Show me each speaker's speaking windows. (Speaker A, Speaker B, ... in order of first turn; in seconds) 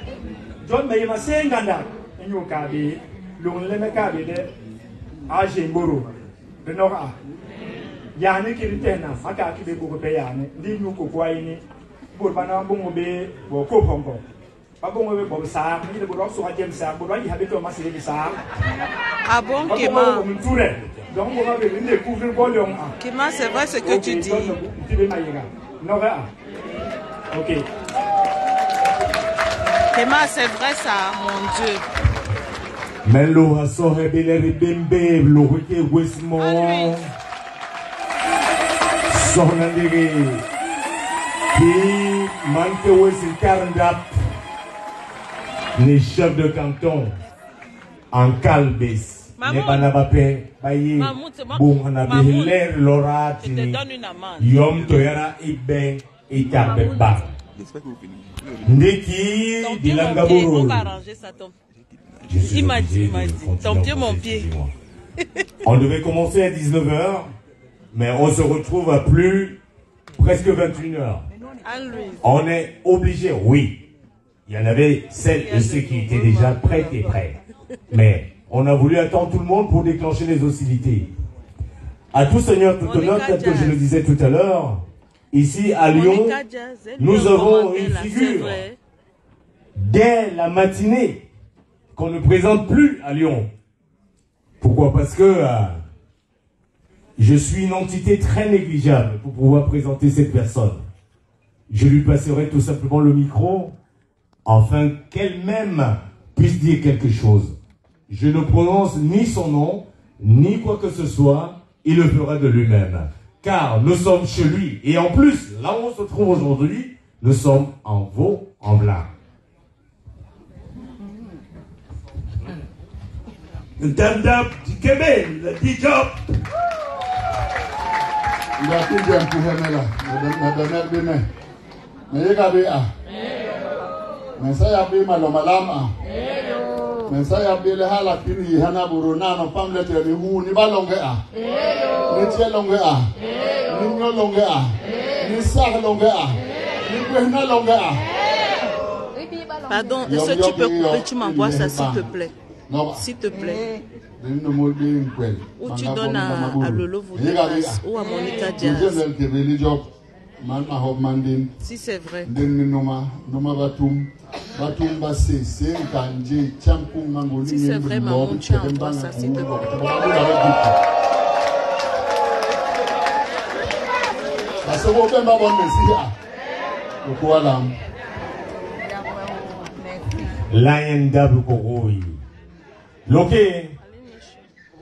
Speaker A: 0.6-4.5, 5.3-6.1, 6.6-7.1, 8.2-11.6, 12.1-14.2, 14.8-18.4, 19.7-22.9, 23.8-26.3, 27.3-27.6
Speaker B: 19.2-20.3, 23.0-24.5, 29.9-31.8, 36.4-37.0, 49.4-49.9, 51.0-52.6, 53.4-55.1, 56.5-57.2, 59.6-61.5, 62.4-64.5, 71.6-72.2, 75.3-77.2, 82.8-83.8, 85.9-88.8, 149.7-152.3, 152.9-153.7, 155.6-159.0, 161.6-162.3, 167.4-170.2, 183.8-184.4
Speaker C: 33.0-37.1, 39.1-40.4, 41.5-44.2, 45.8-47.1, 48.1-53.8, 54.4-57.3, 58.6-60.9, 62.3-64.7, 65.6-67.3, 67.9-69.6, 70.1-71.2, 72.2-73.8, 74.5-77.4, 77.9-81.1, 82.1-86.4, 87.0-88.6, 89.7-91.3, 91.9-93.5, 94.6-95.8, 97.2-100.8, 101.7-103.7, 104.5-107.5, 108.1-119.1, 180.5-182.2, 183.1-183.7
Speaker D: 123.8-126.2
Speaker E: 128.6-131.2, 132.1-132.9, 134.4-135.9, 137.1-141.2, 142.1-143.1, 143.7-148.0, 150.0-152.1, 152.7-153.0, 154.2-159.9, 160.4-161.5, 162.2-170.7, 174.6-176.1, 177.0-177.7